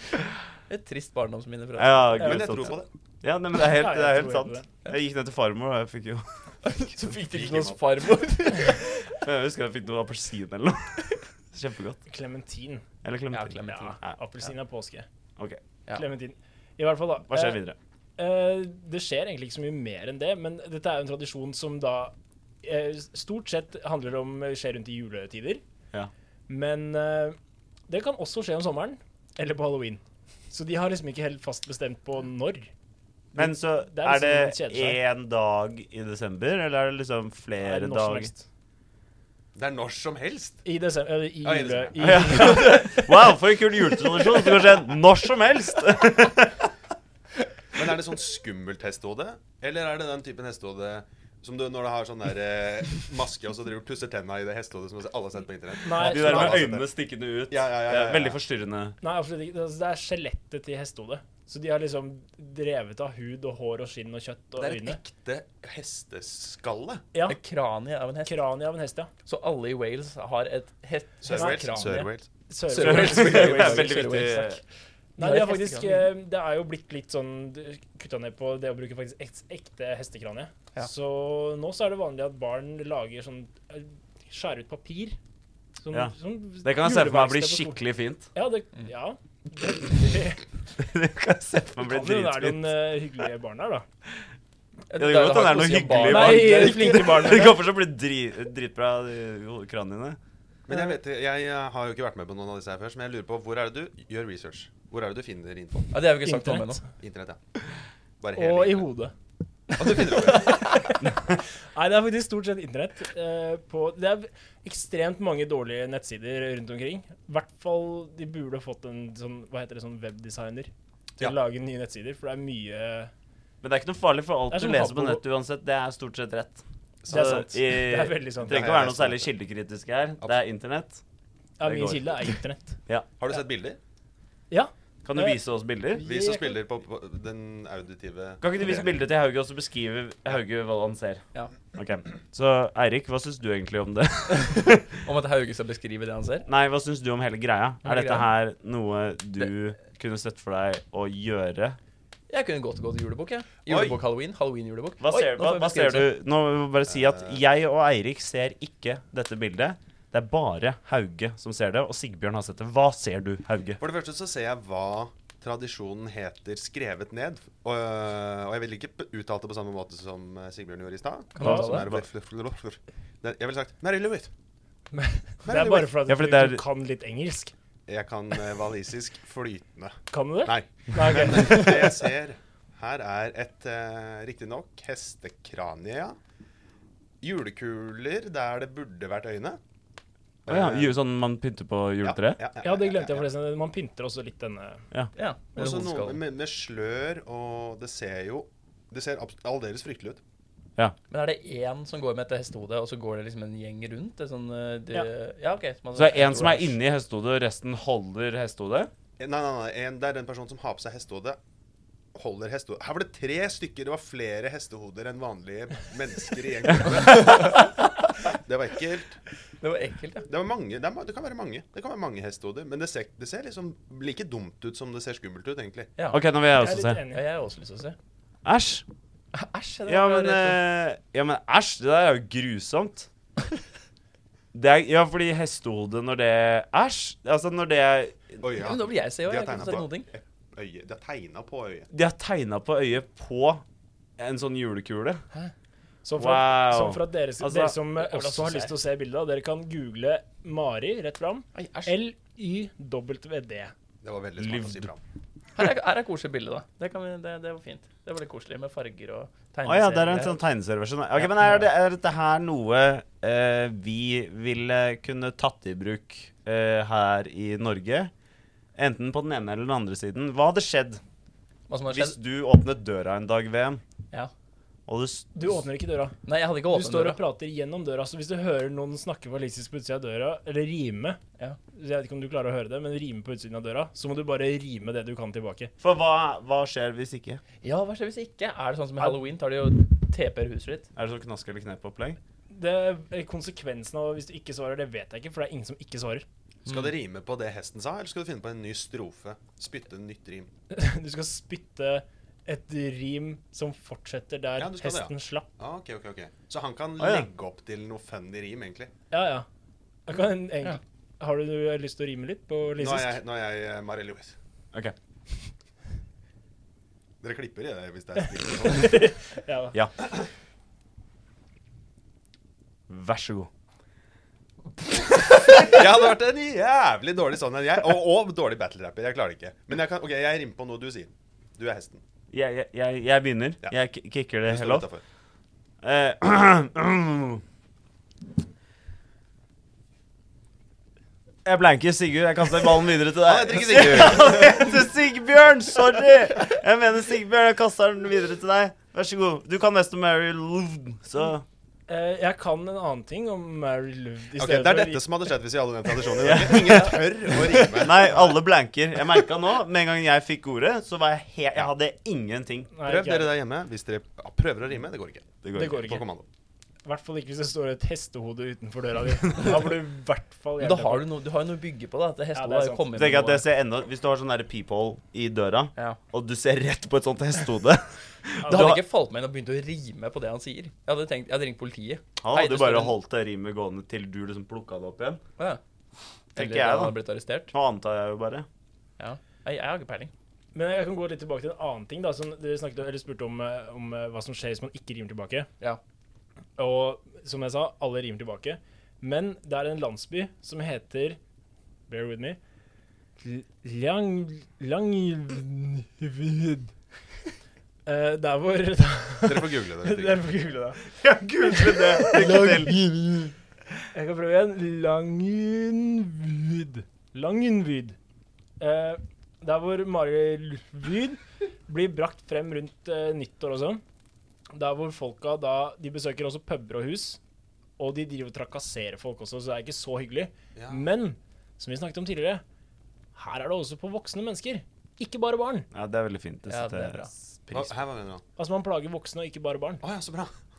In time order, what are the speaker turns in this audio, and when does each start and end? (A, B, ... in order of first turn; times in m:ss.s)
0:00.7-0:02.3 A
0:01.8-0:07.6 B
0:02.2-0:02.8 C
0:02.2-0:02.9 D
0:03.7-0:04.7 C
0:06.6-0:09.0 A
0:07.4-0:07.7 D
0:09.0-0:12.0 B
0:12.1-0:12.8 C
0:13.0-0:14.2 B
0:13.3-0:14.5 A
0:13.7-0:15.1 C
0:15.9-0:17.6 C
0:17.3-0:17.8 B
0:18.2-0:25.6 C
0:26.5-0:27.4 C
0:27.9-0:32.7 C
0:33.3-0:35.0 C
0:33.4-0:38.3 B
0:37.6-0:38.5 C
0:39.6-0:40.6 D
0:40.6-0:43.0 C
0:41.4-0:42.6 D
0:42.0-0:46.7 B
0:42.5-0:42.9 A
0:47.7-0:56.9 D
0:55.8-0:56.7 C
0:55.9-0:59.0 B
0:57.5-0:58.4 D
0:59.0-1:05.0 C
1:04.6-1:07.0 D
1:07.1-1:07.4 C
1:07.3-1:08.5 A
1:08.2-1:09.1 C
1:09.2-1:12.1 A
1:11.2-1:12.3 D
1:11.3-1:11.6 C
1:12.5-1:14.2 C
1:12.7-1:14.6 A
1:12.7-1:14.6 B
1:15.2-1:25.2 C
1:15.2-1:16.2 A
1:25.8-1:27.8 C
1:25.9-1:28.3 B
1:28.3-1:30.5 C
1:30.8-1:32.9 B
1:31.8-1:33.8 C
1:34.9-1:37.4 A
1:35.0-1:40.2 B
1:36.0-1:37.6 C
1:40.7-1:46.0 D
1:45.9-1:46.8 A
1:46.2-1:46.8 C
1:47.0-1:47.4 D
1:48.2-1:48.9 D
1:48.3-1:49.1 C
1:49.8-1:50.8 D
1:50.0-2:03.1 C
2:03.6-2:11.0 B
2:04.5-2:05.2 C
2:07.0-2:07.5 D
2:07.1-2:08.7 C
2:08.4-2:09.3 D
2:11.6-2:12.8 C
2:11.6-2:13.1 B
2:13.2-2:13.8 D
2:14.5-2:15.4 C
2:15.0-2:16.0 B
2:15.9-2:16.6 C
2:16.0-2:19.0 D
2:18.4-2:21.2 B
2:21.7-2:24.9 B
2:25.0-2:26.5 A
2:26.5-2:31.8 B
2:27.8-2:28.3 A
2:32.3-2:36.1 A
2:33.7-2:34.0 D
2:35.0-2:43.8 B
2:36.9-2:37.4 D
2:43.8-2:54.3 D
2:51.4-2:51.8 C
2:51.4-2:51.9 A
2:51.6-2:52.0 B
2:54.9-2:57.5 C
2:55.4-2:55.9 D
2:56.0-2:56.6 B
2:57.9-3:06.2 D
3:00.1-3:02.0 C
3:07.2-3:09.6 D
3:10.5-3:11.0 D
3:10.5-3:12.4 B
3:12.0-3:13.3 D
3:12.6-3:14.8 C
3:15.2-3:16.2 A
3:15.5-3:20.2 D
3:21.1-3:26.8 A
3:26.0-3:28.9 B
3:29.2-3:31.4 D
3:32.2-3:37.8 D
3:37.1-3:37.7 A
3:38.3-3:39.2 D
3:39.6-3:40.3 A
3:40.3-3:45.9 D
3:46.1-3:47.0 B
3:46.5-3:47.3 C
3:47.1-3:48.0 A
3:48.4-3:48.8 B
3:49.3-3:50.6 A
3:49.9-3:53.1 B
3:54.5-3:58.6 B
3:58.4-4:01.9 D
3:58.6-4:00.1 A
4:01.9-4:03.6 B
4:04.2-4:05.2 B
4:06.0-4:13.7 C
4:06.2-4:07.8 B
4:08.0-4:08.7 A
4:11.6-4:12.0 A
4:14.0-4:15.0 D
4:14.4-4:14.9 B
4:15.6-4:20.4 A
4:19.7-4:28.1 B
4:21.2-4:21.6 A
4:28.8-4:31.0 B
4:31.7-4:32.2 A
4:31.9-4:33.8 B
4:34.9-4:35.6 B
4:35.4-4:41.2 C
4:36.2-4:37.2 A
4:41.7-4:45.7 C
4:45.8-4:47.4 B
4:47.6-4:50.9 A
4:51.0-4:52.2 B
4:52.5-4:56.2 C
4:56.7-5:00.5 D
5:00.7-5:05.5 C
5:04.6-5:08.9 D
5:07.0-5:07.3 B
5:09.1-5:09.5 C
5:10.1-5:13.2 C
5:12.8-5:14.4 D
5:17.2-5:19.1 D
5:18.7-5:19.8 C
5:22.9-5:23.5 B
5:25.1-5:32.0 D
5:32.3-5:34.9 B
5:34.5-5:35.0 D
5:35.8-5:37.4 B
5:41.4-5:51.4 B
5:43.2-5:44.6 D
5:51.9-5:55.1 C
5:54.4-5:58.4 D
5:56.2-6:02.7 B
6:02.7-6:03.3 C
6:02.9-6:06.3 D
6:05.4-6:05.9 B
6:05.5-6:06.1 C
6:06.8-6:11.1 C
6:10.6-6:13.5 A
6:12.4-6:13.0 C
6:13.0-6:18.8 B
6:18.4-6:18.8 C
6:18.5-6:23.0 A
6:22.2-6:25.2 B
6:26.4-6:27.5 A
6:26.4-6:28.5 B
6:29.0-6:30.1 A
6:30.5-6:35.5 C
6:36.6-6:41.2 C
6:41.9-6:42.4 C
6:43.2-6:46.7 C
6:47.8-6:53.2 C
6:49.2-6:50.3 D
6:51.0-6:52.8 B
6:53.9-6:58.0 C
6:58.6-7:03.8 C
7:04.5-7:07.2 C
7:07.8-7:12.4 C
7:10.6-7:10.9 D
7:13.2-7:15.7 C
7:15.7-7:17.8 B
7:16.5-7:17.1 A
7:17.5-7:18.2 D
7:18.4-7:19.8 C
7:19.8-7:20.3 D